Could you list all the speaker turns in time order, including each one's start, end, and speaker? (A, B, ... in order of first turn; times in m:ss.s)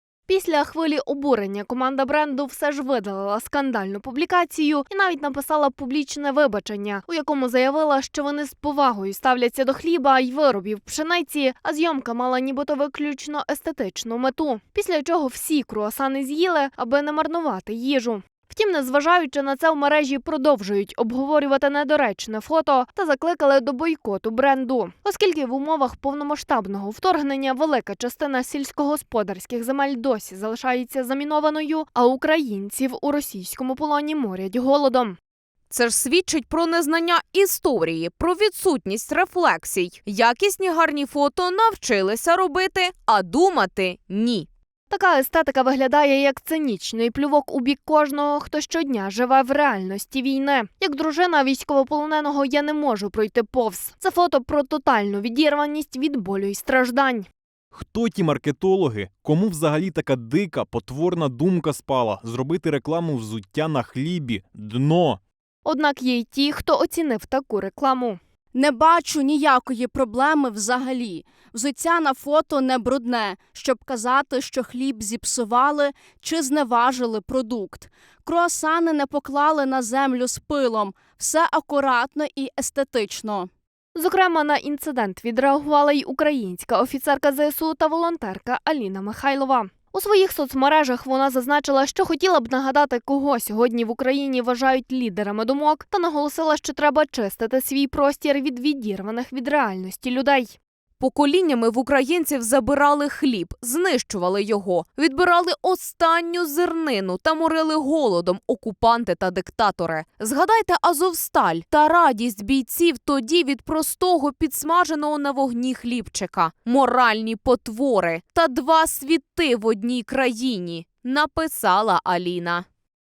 0:00.3-0:35.2 A
0:35.7-0:44.5 B
0:44.9-0:57.3 A
0:57.7-1:05.2 C
1:05.6-1:08.2 A
1:08.5-1:23.5 D
1:24.0-1:40.6 A
1:41.0-2:02.7 B